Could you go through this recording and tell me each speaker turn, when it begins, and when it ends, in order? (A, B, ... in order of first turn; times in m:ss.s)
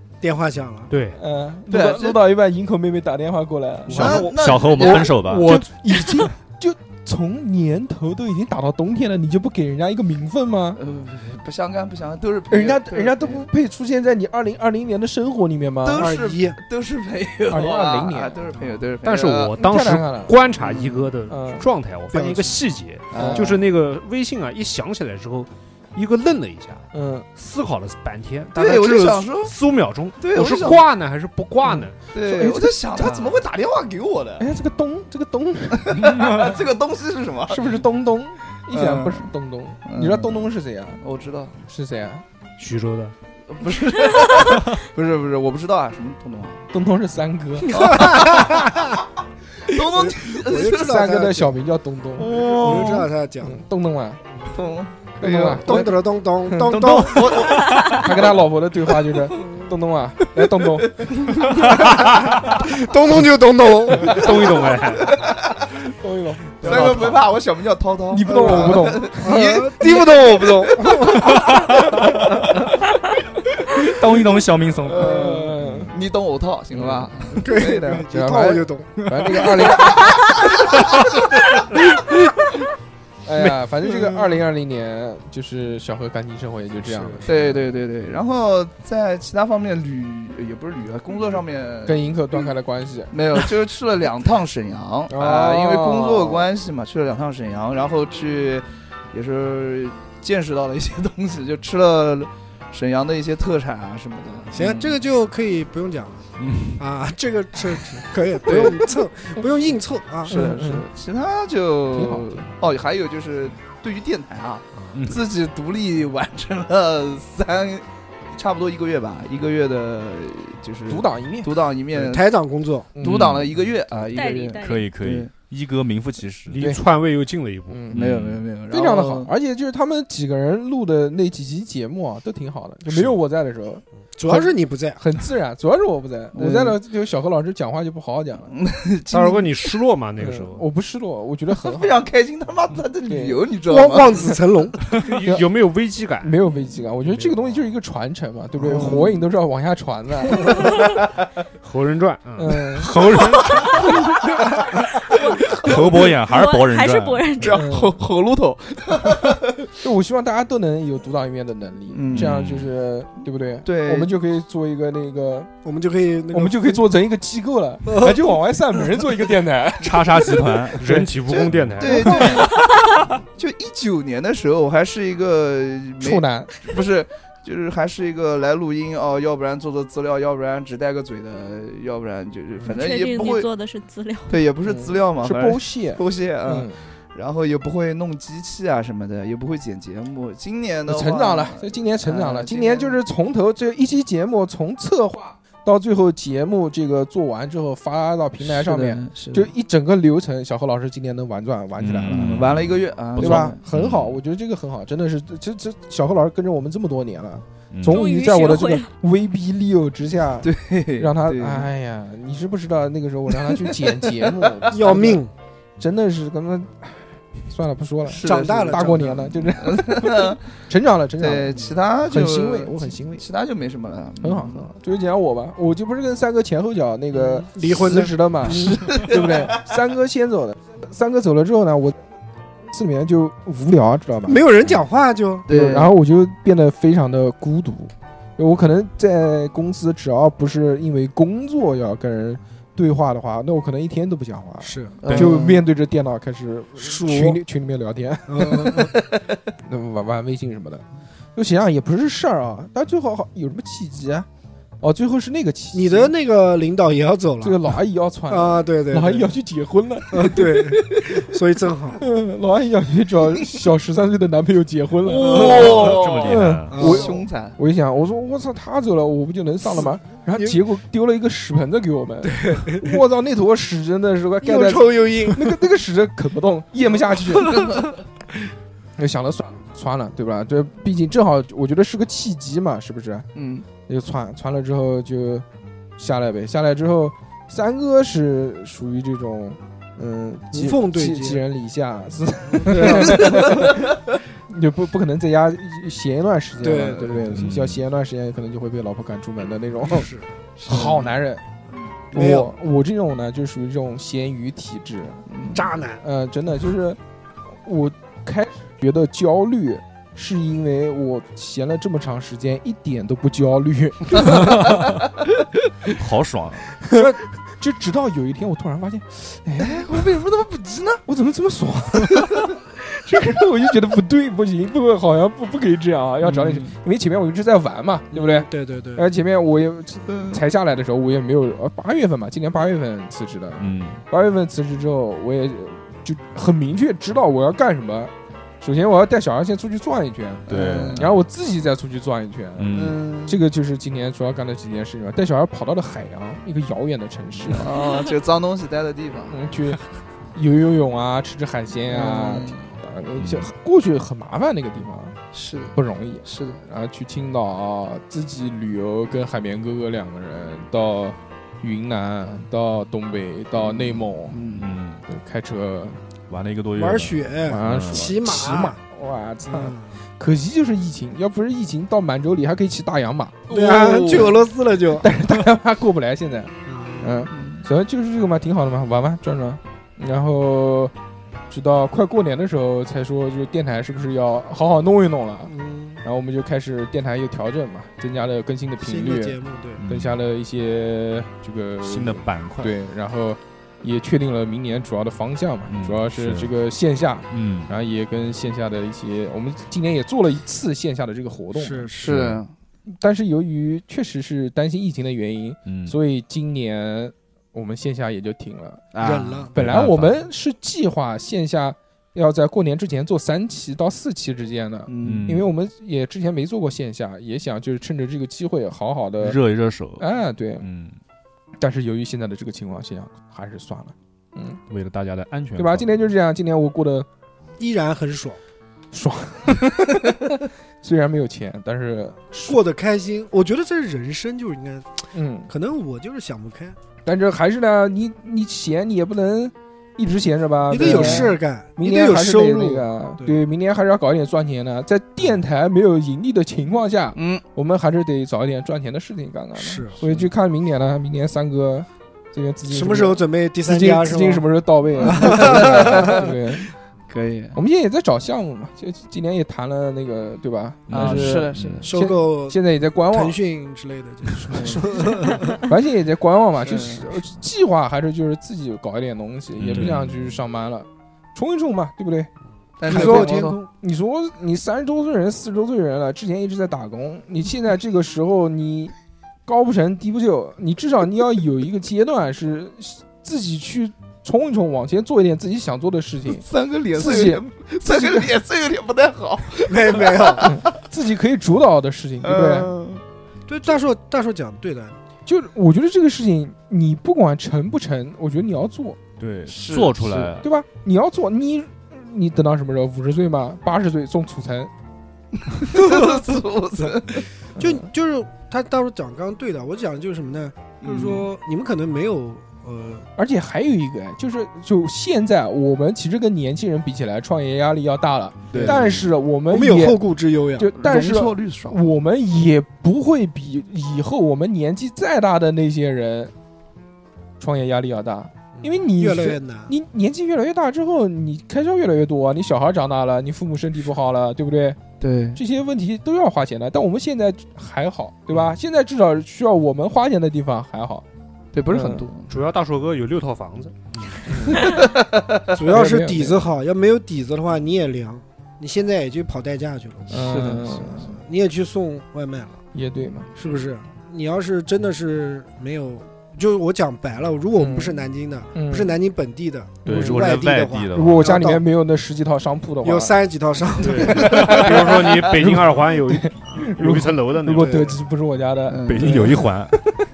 0:00.2-0:00.9 A
0:00.9-0:01.2 B
0:01.2-0:04.2 C
0:01.7-0:02.2 D
0:03.9-0:05.7 B
0:03.9-0:05.1 D
0:04.0-0:05.5 E
0:04.8-0:10.8 C
0:10.8-0:13.4 D
0:12.5-0:16.1 C
0:15.8-0:19.5 D
0:16.0-0:16.6 A
0:17.5-0:18.4 C
0:18.5-0:18.8 A
0:19.0-0:26.8 B
0:19.6-0:20.3 C
0:20.6-0:21.1 D
0:21.3-0:21.6 C
0:22.1-0:22.6 A
0:23.1-0:23.6 D
0:23.1-0:23.5 C
0:26.9-0:27.3 C
0:27.3-0:32.0 B
0:28.5-0:29.6 D
0:30.2-0:30.8 D
0:31.6-0:33.3 C
0:32.1-0:34.5 D
0:34.4-0:36.2 C
0:35.8-0:37.8 D
0:37.5-0:41.0 C
0:38.7-0:39.3 D
0:39.8-0:41.6 D
0:41.6-0:42.2 C
0:42.6-0:43.1 B
0:43.5-0:46.6 D
0:46.7-0:47.7 C
0:47.7-0:48.8 D
0:47.7-0:49.0 A
0:49.6-0:51.0 D
0:49.7-0:51.6 A
0:50.7-0:52.7 C
0:52.2-0:53.1 D
0:52.4-0:53.6 A
0:53.4-0:54.2 C
0:54.5-0:55.9 D
0:55.2-0:56.9 C
0:55.4-0:57.6 A
0:56.7-0:58.2 D
0:57.9-1:01.0 C
0:59.4-0:59.7 A
1:01.4-1:04.3 A
1:04.1-1:05.7 D
1:04.1-1:05.1 B
1:06.0-1:07.2 C
1:06.6-1:11.4 D
1:08.1-1:09.2 C
1:08.3-1:11.4 A
1:13.7-1:15.1 E
1:14.8-1:18.1 D
1:14.9-1:15.9 C
1:17.3-1:18.9 A
1:18.1-1:20.1 C
1:19.4-1:20.5 D
1:23.2-1:27.6 C
1:26.9-1:27.3 A
1:27.3-1:32.5 D
1:31.8-1:33.1 C
1:33.1-1:45.0 D
1:35.1-1:36.5 C
1:44.5-1:46.2 A
1:46.4-1:46.8 E
1:46.8-1:50.3 A
1:48.4-1:48.8 D
1:50.3-1:50.8 C
1:50.3-2:02.3 D
1:51.9-1:52.5 C
1:54.9-1:55.2 E
2:00.9-2:01.5 C
2:01.9-2:02.9 A
2:02.9-2:03.3 C
2:03.0-2:05.3 D
2:03.0-2:03.5 E
2:04.1-2:04.9 F
2:04.6-2:06.6 E
2:06.5-2:07.8 B
2:07.7-2:08.0 C
2:07.9-2:08.4 E
2:07.9-2:09.3 D
2:08.7-2:18.5 C
2:14.2-2:15.0 A
2:16.3-2:16.8 D
2:18.5-2:19.8 D
2:19.1-2:20.6 B
2:20.2-2:22.0 C
2:21.5-2:24.3 D
2:23.1-2:23.4 C
2:23.7-2:24.8 A
2:25.0-2:26.3 B
2:26.2-2:30.6 C
2:27.1-2:27.4 B
2:28.6-2:29.1 A
2:28.7-2:29.1 D
2:31.6-2:33.8 B
2:32.4-2:32.9 C
2:33.2-2:33.9 D
2:35.2-2:36.1 D
2:35.2-2:37.6 F
2:35.6-2:37.3 E
2:37.4-2:39.7 D
2:37.5-2:37.9 C
2:39.8-2:45.5 C
2:41.9-2:42.3 D
2:42.1-2:42.7 E
2:43.6-2:44.1 D
2:45.6-2:46.8 A
2:46.3-2:50.0 C
2:47.9-2:48.2 A
2:49.8-2:51.1 E
2:50.8-2:52.2 B
2:51.3-2:52.7 D
2:51.9-2:52.4 C
2:53.4-3:03.5 D
2:56.0-2:56.5 C
3:02.7-3:04.4 F
3:04.3-3:13.0 D
3:04.6-3:06.8 C
3:10.9-3:22.3 C
3:18.4-3:19.5 D
3:21.8-3:24.2 E
3:22.1-3:23.6 D
3:23.2-3:35.2 C
3:27.7-3:28.1 E
3:27.9-3:28.9 F
3:30.4-3:31.7 D
3:33.9-3:34.7 D
3:34.7-3:35.3 A
3:35.8-3:43.2 C
3:38.1-3:40.4 D
3:38.2-3:39.2 A
3:41.2-3:44.7 D
3:44.2-3:52.0 C
3:47.1-3:48.9 A
3:48.5-3:49.3 D
3:52.7-3:54.4 C
3:54.2-3:55.5 A
3:55.4-3:55.9 D
3:55.5-4:08.9 C
4:04.6-4:05.4 A
4:05.0-4:05.6 D
4:06.8-4:07.4 A
4:08.3-4:08.9 A
4:09.6-4:10.8 C
4:11.3-4:14.3 C
4:14.8-4:16.1 C
4:15.7-4:17.7 A
4:17.4-4:20.7 C
4:18.3-4:19.3 A
4:20.1-4:22.0 A
4:22.0-4:37.6 C
4:25.0-4:27.6 D
4:25.2-4:26.0 A
4:25.7-4:26.9 E
4:26.7-4:27.2 A
4:32.2-4:33.0 A
4:34.4-4:35.6 A
4:39.0-4:43.3 C
4:43.3-4:43.6 D
4:43.8-4:45.4 C
4:46.0-4:53.9 C
4:50.5-4:51.4 A
4:52.5-4:53.6 A
4:53.1-4:53.6 D
4:54.5-5:00.1 C
4:56.6-4:57.4 A
4:57.4-4:57.8 E
4:59.8-5:00.3 A
5:00.6-5:01.1 D
5:00.6-5:01.4 C
5:02.1-5:02.5 A
5:02.1-5:05.2 C
5:05.3-5:05.7 D
5:05.5-5:06.0 A
5:06.0-5:07.0 C
5:07.6-5:14.8 C
5:16.0-5:16.8 E
5:16.8-5:20.0 C
5:16.9-5:17.2 A
5:19.6-5:21.0 D
5:21.0-5:47.7 C
5:26.2-5:26.7 D
5:28.1-5:29.0 A
5:30.1-5:30.4 D
5:33.6-5:34.0 E
5:40.5-5:41.0 D
5:40.5-5:41.2 E
5:42.6-5:43.1 E
5:42.7-5:43.4 D
5:47.5-5:49.4 D
5:49.3-5:49.8 C
5:50.3-5:55.2 C
5:51.9-5:52.7 D
5:53.2-5:53.5 E
5:55.3-5:56.6 D
5:55.7-6:04.4 C
6:03.6-6:04.7 D
6:04.5-6:05.0 E
6:05.1-6:06.0 C
6:06.3-6:08.5 E
6:06.8-6:08.8 A
6:07.5-6:13.5 C
6:09.5-6:09.9 A
6:13.5-6:14.4 D
6:13.5-6:15.1 A
6:15.0-6:20.9 C
6:16.7-6:17.2 A
6:17.3-6:17.6 D
6:21.5-6:41.9 C
6:25.5-6:26.0 A
6:28.8-6:29.8 A
6:29.8-6:30.2 E
6:31.8-6:32.7 E
6:35.7-6:36.5 E
6:37.3-6:37.7 E
6:41.5-6:42.1 A
6:42.0-6:42.5 D
6:42.1-6:42.4 E
6:42.9-6:48.9 C
6:45.6-6:46.0 E
6:48.9-6:49.4 D
6:49.0-6:49.5 A
6:49.5-6:50.2 E
6:49.5-6:59.4 C
6:54.9-6:55.2 D
6:55.0-6:55.5 E
6:59.2-7:00.1 E
7:00.0-7:00.6 C
7:00.6-7:00.9 E
7:01.6-7:04.6 C
7:04.7-7:05.9 E
7:05.6-7:07.1 C
7:07.6-7:08.4 A
7:08.9-7:12.6 C
7:12.5-7:15.0 A
7:15.1-7:15.5 C
7:15.5-7:16.8 A
7:17.0-7:36.7 C
7:20.7-7:23.4 A
7:20.8-7:21.3 D
7:27.2-7:27.4 D
7:29.6-7:30.2 A
7:32.7-7:34.4 A
7:35.0-7:36.3 A
7:35.1-7:36.2 D
7:37.1-7:37.6 D
7:37.5-7:43.4 C
7:40.9-7:41.9 E
7:40.9-7:41.9 D
7:41.8-7:45.6 A
7:44.5-7:45.1 D
7:45.6-7:52.3 C
7:46.6-7:47.0 D
7:49.6-7:50.2 E
7:52.8-7:53.6 D
7:52.8-7:53.7 A
7:52.9-7:58.9 C
7:59.4-8:08.3 C
8:06.3-8:10.6 D
8:09.7-8:10.5 A
8:10.4-8:12.7 C
8:12.2-8:13.0 D
8:13.5-8:15.0 A
8:15.2-8:19.0 C
8:19.2-8:20.5 E
8:19.5-8:20.1 D
8:20.4-8:24.7 C
8:25.5-8:27.2 D
8:25.8-8:26.1 A
8:27.6-8:33.0 A
8:27.6-8:27.8 C
8:30.8-8:31.3 D
8:33.2-8:40.0 C
8:38.5-8:38.8 D
8:38.5-8:38.8 A
8:39.5-8:40.7 A
8:40.6-8:46.3 C
8:40.8-8:41.8 D
8:47.4-8:54.8 C
8:48.6-8:49.7 A
8:55.0-8:55.4 D
8:55.3-9:01.0 C
9:01.5-9:02.3 D
9:01.7-9:02.1 C
9:02.3-9:04.2 B
9:04.3-9:04.7 C
9:04.5-9:05.4 D
9:05.5-9:12.6 A
9:05.7-9:06.4 C
9:10.1-9:11.2 C
9:10.2-9:11.0 D
9:12.7-9:13.3 C
9:13.3-9:21.6 A
9:17.6-9:18.0 C
9:18.5-9:19.0 C
9:19.8-9:20.3 C
9:19.8-9:21.4 E
9:20.9-9:23.1 C
9:22.8-9:24.7 A
9:24.0-9:27.9 B
9:24.1-9:24.7 D
9:24.1-9:29.8 C
9:27.5-9:27.9 A
9:28.7-9:29.3 D
9:28.8-9:29.8 E